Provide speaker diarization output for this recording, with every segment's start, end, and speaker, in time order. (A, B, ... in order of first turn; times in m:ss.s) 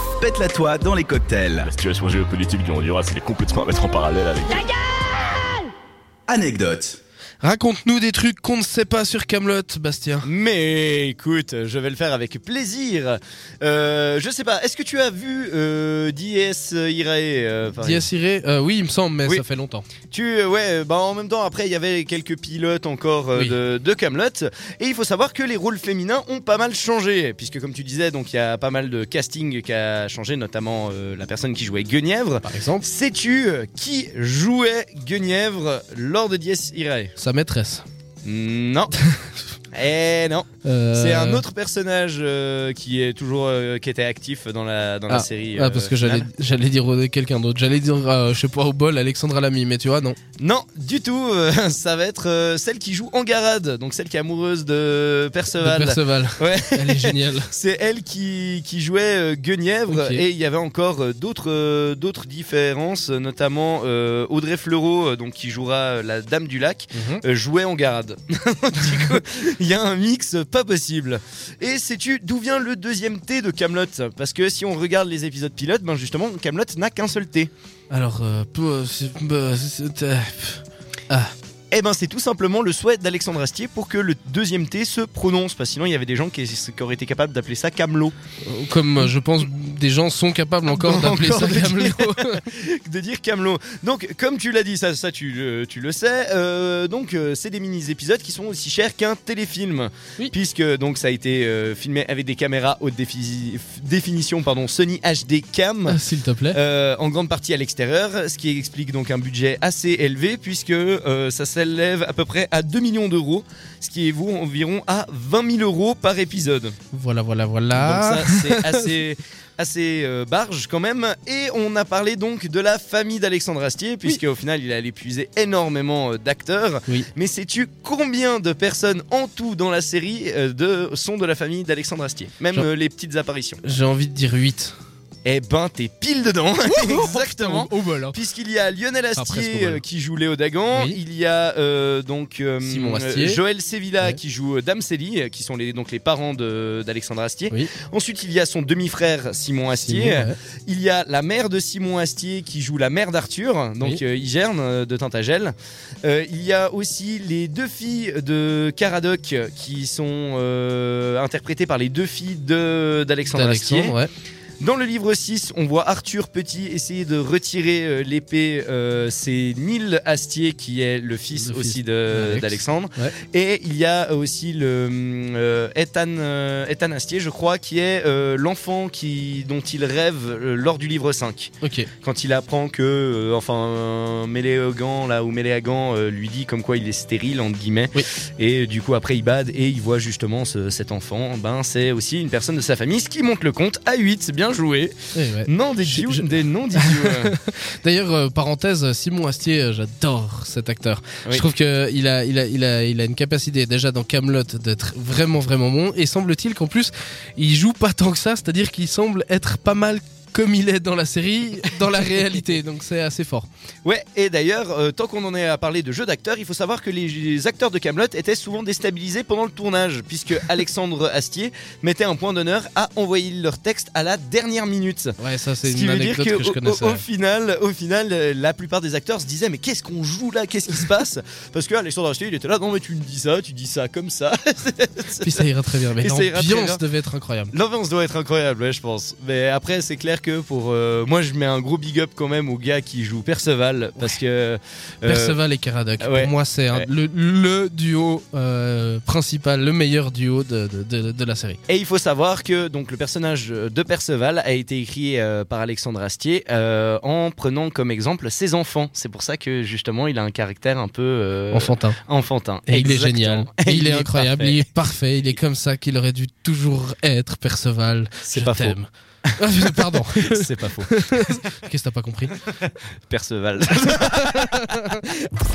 0:00.2-0:01.7 A
0:01.6-0:04.8 B
0:06.3-0:07.0 A
0:07.4-0:10.2 C
0:10.2-0:18.0 D
0:17.8-0:19.8 C
0:20.1-0:37.1 D
0:32.4-0:32.8 C
0:37.2-0:37.8 C
0:38.2-0:38.9 D
0:39.7-0:46.3 D
0:40.6-0:41.4 C
0:45.1-0:50.2 C
0:50.4-1:17.5 D
0:55.5-0:57.5 C
0:59.9-1:00.2 C
1:06.9-1:07.2 C
1:17.9-1:21.3 C
1:21.7-1:28.1 D
1:28.4-1:32.4 C
1:30.7-1:46.0 D
1:45.9-1:46.6 C
1:46.5-1:56.8 D
1:56.9-1:58.9 C
1:57.7-2:13.6 D
2:13.6-2:14.7 C
2:15.2-2:43.9 D
2:16.6-2:18.2 C
2:19.1-2:19.8 C
2:20.7-2:21.0 C
2:22.6-2:23.4 C
2:29.8-2:30.3 C
2:43.3-2:44.1 C
2:44.6-3:14.9 D
2:51.3-2:53.1 C
3:01.6-3:01.9 C
3:15.1-3:33.5 C
3:15.4-3:17.3 D
3:33.8-3:55.4 D
3:45.2-3:47.0 C
3:55.2-3:57.5 C
3:56.0-3:56.8 D
3:57.5-4:05.4 D
4:05.0-4:11.6 C
4:06.0-4:06.9 D
4:11.7-4:24.6 D
4:21.5-4:22.0 C
4:22.7-4:32.3 C
4:28.2-4:28.8 D
4:29.3-4:31.5 D
4:32.5-4:35.0 D
4:33.8-4:35.0 C